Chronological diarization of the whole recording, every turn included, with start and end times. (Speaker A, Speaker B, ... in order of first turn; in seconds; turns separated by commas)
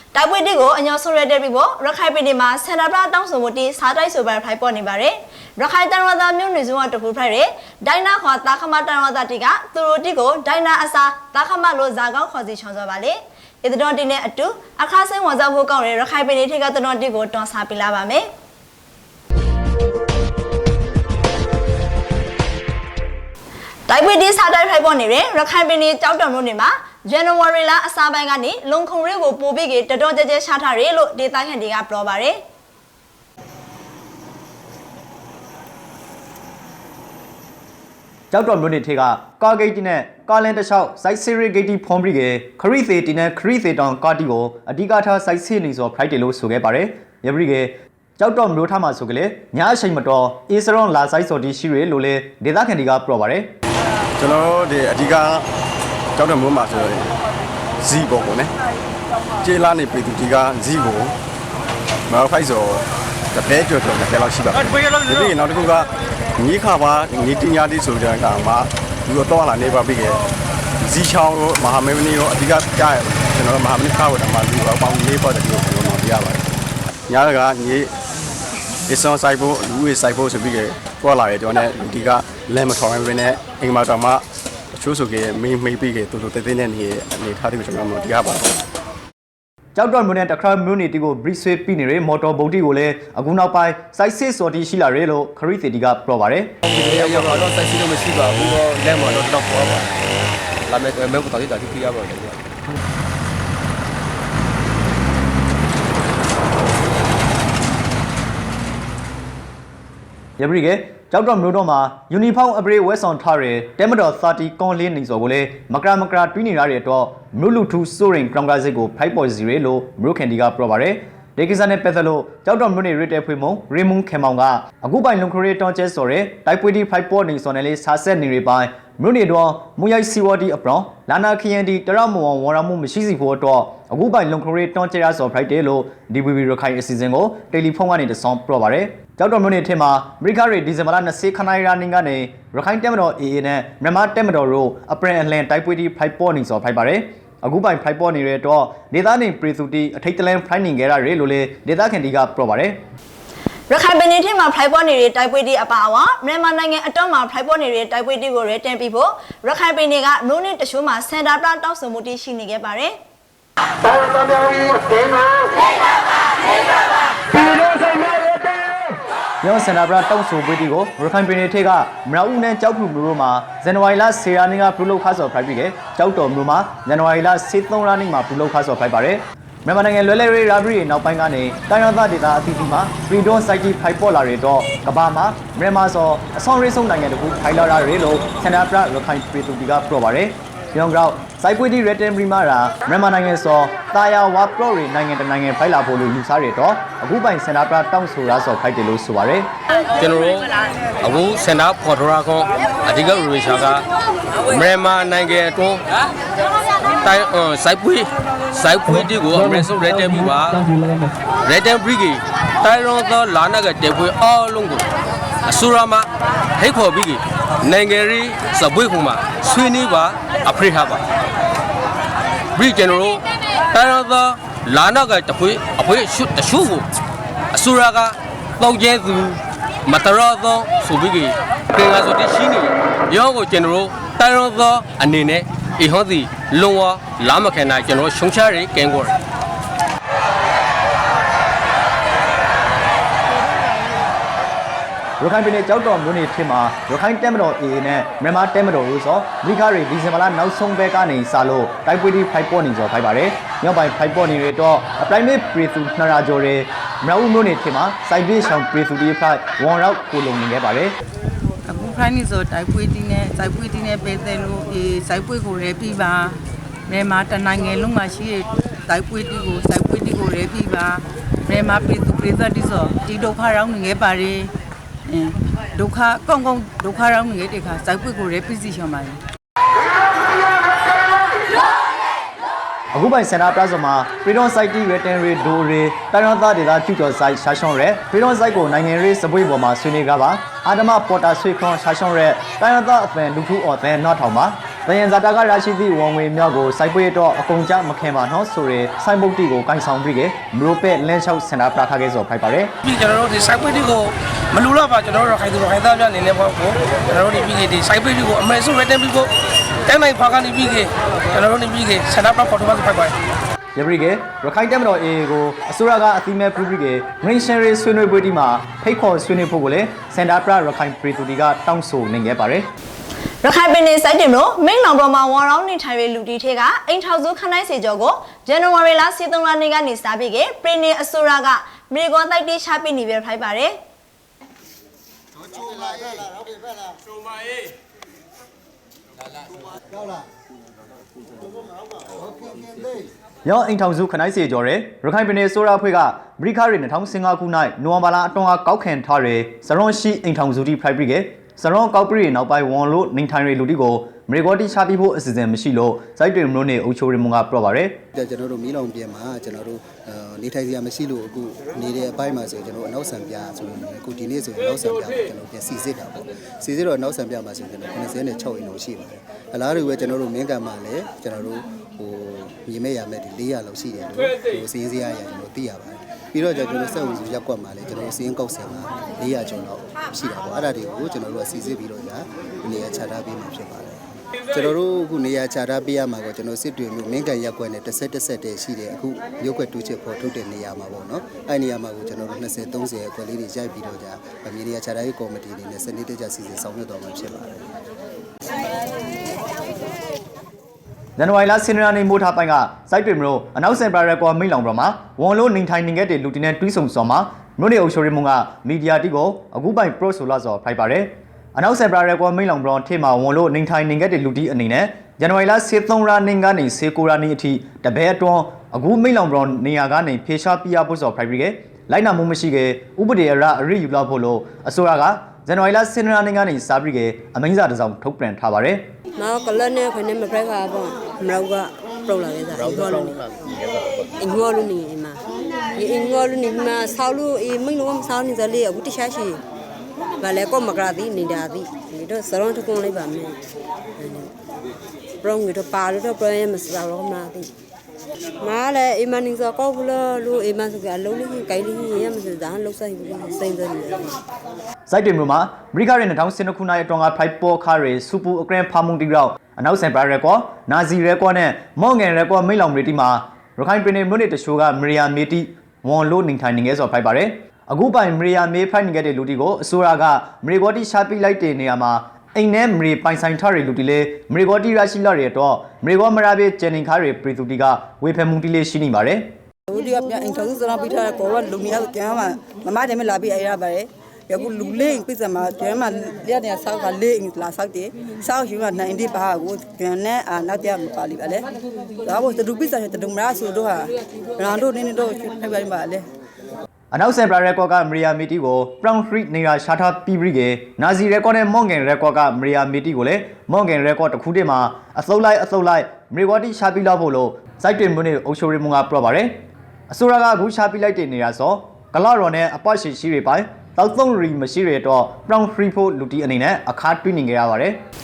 Speaker A: 0.1-18.2, Speaker A: 23.9-32.4, Speaker B: 38.3-53.5, Speaker C: 54.2-55.4, Speaker C: 56.1-57.1, Speaker C: 57.8-58.5, Speaker C: 59.4-61.1, Speaker C: 62.1-70.2, Speaker C: 70.8-76.5, Speaker C: 77.1-77.9, Speaker C: 78.9-84.2, Speaker C: 84.7-88.5, Speaker B: 89.8-96.5, Speaker D: 96.7-99.8, Speaker D: 100.7-102.3, Speaker B: 110.4-152.8, Speaker A: 153.7-162.9, Speaker B: 169.4-199.5, Speaker D: 199.9-200.5, Speaker D: 201.0-203.8, Speaker D: 204.4-205.8, Speaker D: 207.0-210.6, Speaker D: 211.4-214.8, Speaker D: 215.4-221.0, Speaker D: 222.5-226.8, Speaker D: 227.5-239.2, Speaker B: 245.2-260.9, Speaker E: 261.6-274.5, Speaker E: 275.1-279.2, Speaker B: 282.9-302.7, Speaker F: 302.8-309.3, Speaker F: 309.9-313.1, Speaker B: 313.8-322.7, Speaker A: 323.4-333.7, Speaker B: 343.4-358.0, Speaker G: 358.1-397.6, Speaker B: 401.2-428.8, Speaker H: 429.2-433.2, Speaker H: 434.2-435.2, Speaker H: 435.7-439.4, Speaker H: 440.2-443.4, Speaker H: 444.0-444.3, Speaker H: 445.2-447.5, Speaker H: 448.4-454.2, Speaker B: 454.9-479.3, Speaker I: 479.7-491.4, Speaker I: 492.0-493.8, Speaker I: 494.4-496.0, Speaker B: 496.9-517.8